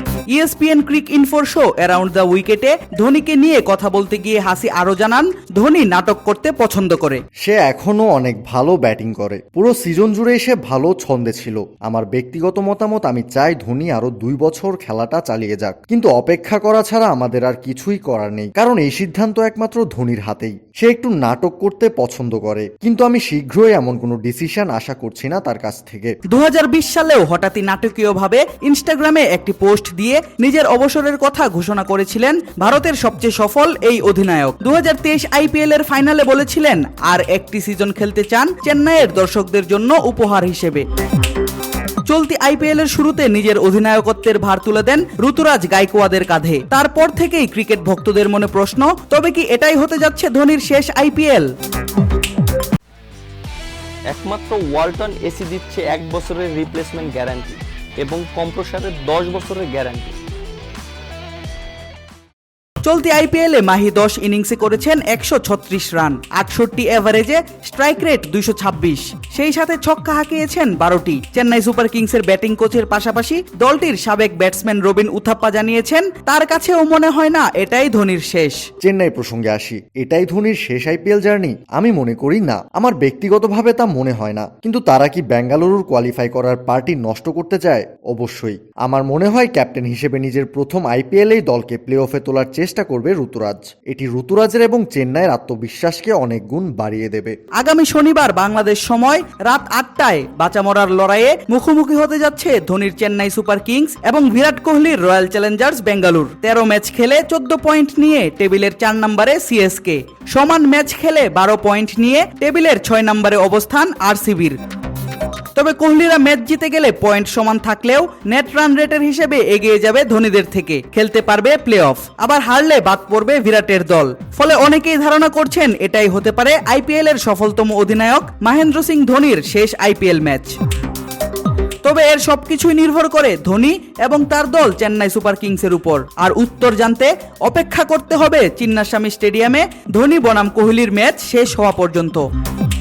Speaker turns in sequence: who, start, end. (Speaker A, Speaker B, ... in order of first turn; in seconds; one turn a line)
Speaker A: 0.3-7.2
Speaker B: 7.4-26.2
Speaker A: 26.3-40.9
Speaker A: 42.1-51.5
Speaker C: 54.1-60.2
Speaker A: 62.9-78.6
Speaker B: 78.8-97.4
Speaker A: 97.6-114.6
Speaker A: 115.5-130.6
Speaker A: 131.8-142.3